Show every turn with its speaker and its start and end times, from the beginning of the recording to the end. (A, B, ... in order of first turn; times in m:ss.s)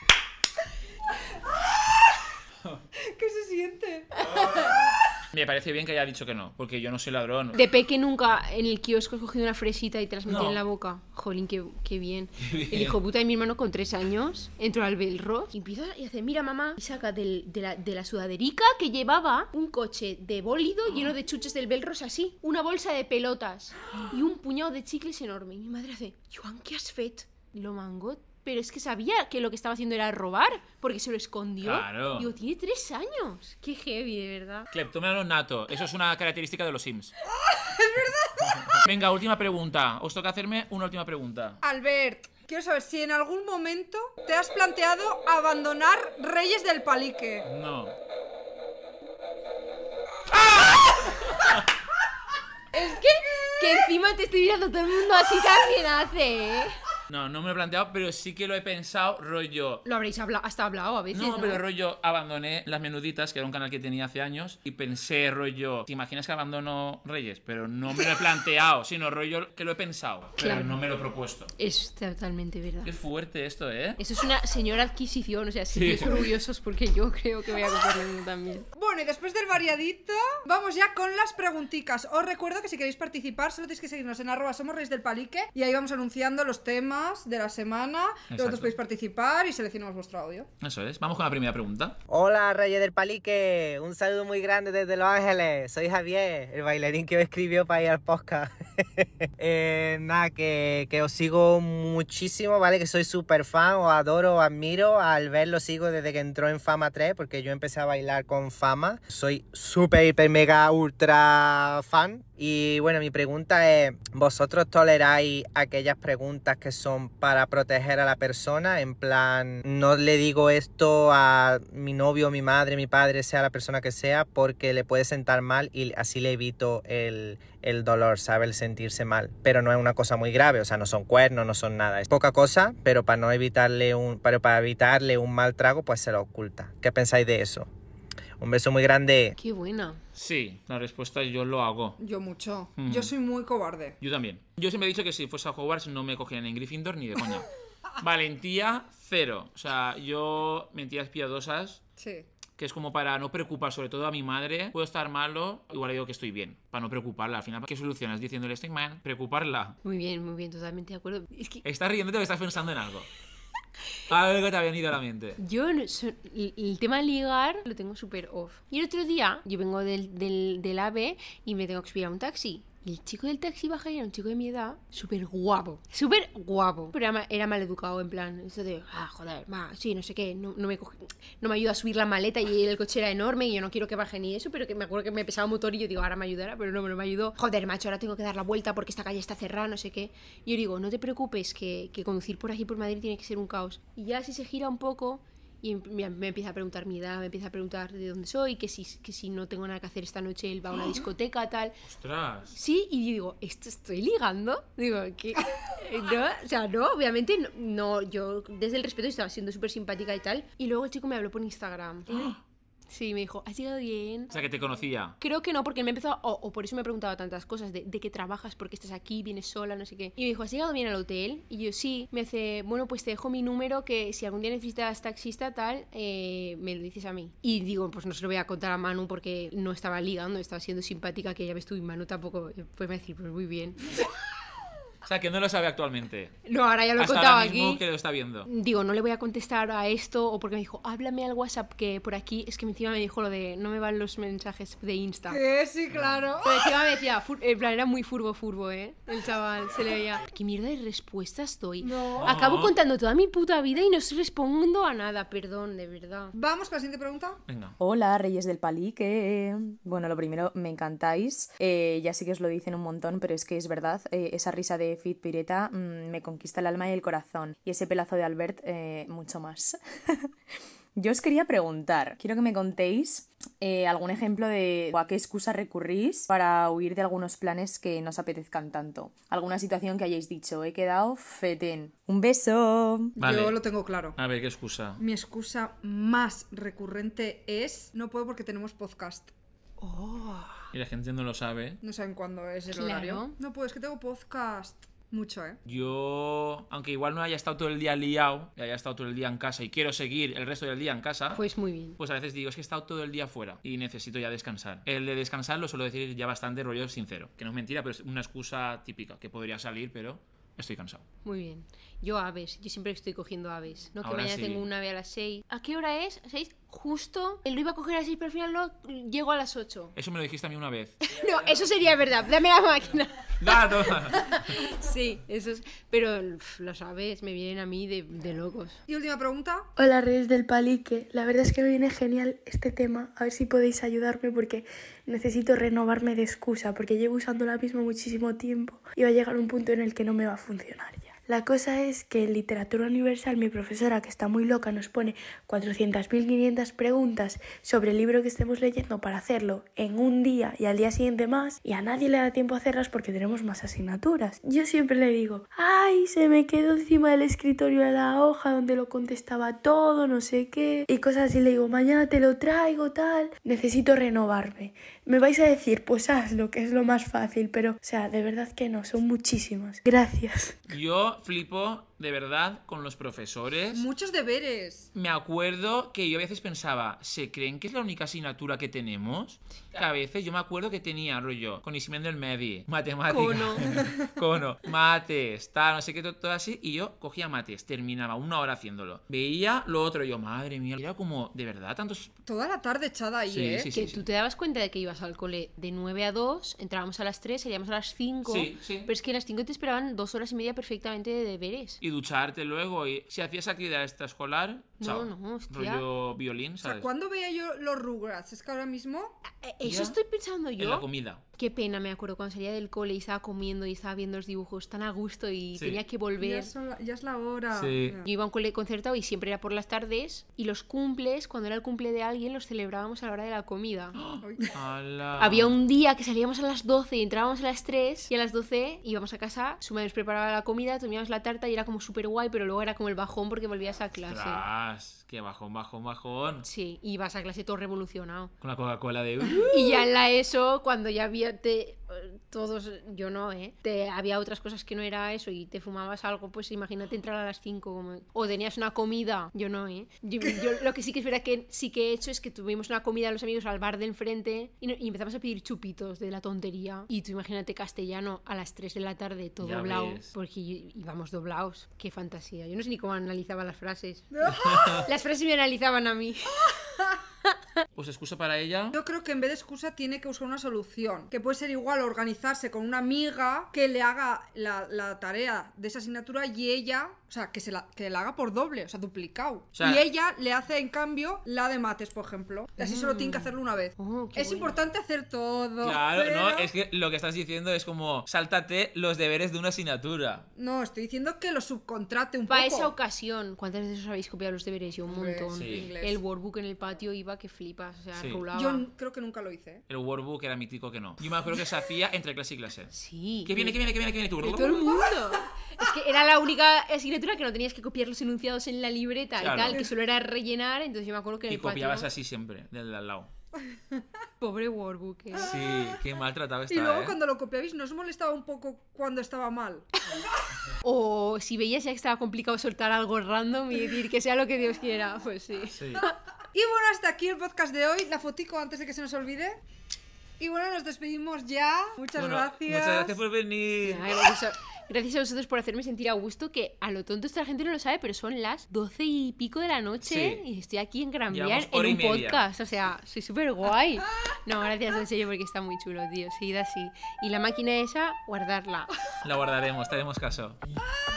0:03.0-0:04.2 A
0:04.2-0:04.7 B
0:04.3-0:04.7 C
0:05.3-0:07.7 C
0:07.5-0:34.7 B
0:10.3-0:10.6 C
0:12.4-0:13.0 C
0:31.6-0:32.3 C
0:34.7-0:37.1 C
0:37.3-0:38.8 A
0:38.6-0:41.6 C
0:41.6-0:47.5 A
0:47.5-0:48.0 C
0:50.6-0:51.6 C
0:52.7-0:56.8 B
0:57.1-0:59.8 C
0:59.8-1:01.6 B
1:01.1-1:11.5 C
1:10.4-1:10.8 B
1:11.6-1:12.9 B
1:12.8-1:14.0 C
1:14.0-1:18.7 B
1:15.7-1:16.2 C
1:18.8-1:30.5 A
1:28.3-1:28.8 C
1:30.6-1:32.0 C
1:32.1-2:17.7 D
2:18.4-2:19.4 D
2:19.4-2:20.0 B
2:20.2-2:22.0 C
2:22.0-2:24.0 A
2:22.8-2:23.1 C
2:24.0-2:27.5 C
2:28.0-2:31.8 C
2:32.0-2:32.3 A
2:32.6-2:39.8 C
2:39.8-2:41.6 B
2:41.6-2:43.1 C
2:44.1-2:45.4 C
2:45.4-3:21.8 B
3:21.8-3:22.6 C
3:22.5-3:32.3 B
3:32.1-3:32.4 C
3:32.9-3:34.3 B
3:34.3-3:35.2 C
3:35.2-3:54.0 B
3:55.0-3:56.4 C
3:56.5-3:57.8 B
3:57.0-3:58.5 C
3:58.4-4:05.4 B
4:05.3-4:06.7 A
4:05.9-4:06.4 C
4:06.4-4:16.4 B
4:11.8-4:12.3 A
4:12.2-4:12.8 C
4:16.4-4:17.4 A
4:17.5-4:17.8 C
4:17.8-4:30.2 E
4:31.0-4:43.2 E
4:43.2-4:44.2 A
4:43.2-4:43.6 C
4:44.2-4:45.0 C
4:45.0-4:49.3 A
4:49.8-4:50.6 B
4:50.7-4:51.8 C
4:51.8-4:55.6 A
4:52.7-4:53.4 B
4:55.7-5:01.4 C
5:01.4-5:02.0 B
5:02.0-5:11.0 C
5:11.2-5:20.0 B
5:14.0-5:14.7 C
5:20.0-5:21.5 C
5:21.0-5:28.8 B
5:23.4-5:24.3 C
5:28.9-5:29.7 A
5:29.8-6:10.6 F
6:10.7-6:13.9 C
6:13.7-6:14.9 A
6:15.0-6:32.1 C
6:23.1-6:23.7 B
6:32.3-6:33.7 A
6:33.3-6:34.0 C
6:33.7-6:41.8 B
6:38.2-6:38.9 C
6:41.8-6:46.9 C
6:44.8-6:45.8 B
6:46.6-6:49.2 A
6:49.4-6:50.8 B
6:49.6-6:50.0 C
6:50.6-6:51.2 C
6:51.4-6:56.5 B
6:55.6-6:55.8 C
6:56.2-6:58.1 A
6:57.5-6:58.0 C
6:58.0-7:04.0 B
7:04.0-7:05.6 C
7:04.2-7:04.6 A
7:05.2-7:14.4 B
7:14.1-7:16.5 C
7:16.4-7:18.3 B
7:18.4-7:19.8 C
7:19.5-7:44.1 B
7:39.4-7:40.1 C
7:44.1-7:44.8 A
7:44.3-7:44.9 C
7:44.8-7:46.6 B
7:47.8-7:48.8 C
7:48.7-8:06.5 A
7:59.6-7:59.8 C
8:02.6-8:04.6 B
8:05.6-8:10.3 C
8:10.4-8:12.7 A
8:12.3-8:18.7 B
8:14.9-8:16.0 A
8:15.3-8:15.7 C
8:17.9-8:18.2 C
8:18.3-8:19.6 A
8:19.7-8:22.7 C
8:22.7-8:23.6 B
8:23.2-8:24.7 C
8:24.2-8:31.9 B
8:29.2-8:29.6 C
8:31.3-8:33.1 C
8:34.2-8:35.3 B
8:35.2-8:37.0 C
8:36.5-8:39.7 A
8:40.6-8:45.9 B
8:45.5-8:45.9 C
8:46.3-8:49.4 A
8:50.2-8:53.0 A
8:52.0-8:53.9 C
8:53.6-9:08.7 B
8:59.8-9:00.2 C
9:01.1-9:02.2 C
9:09.0-9:10.6 C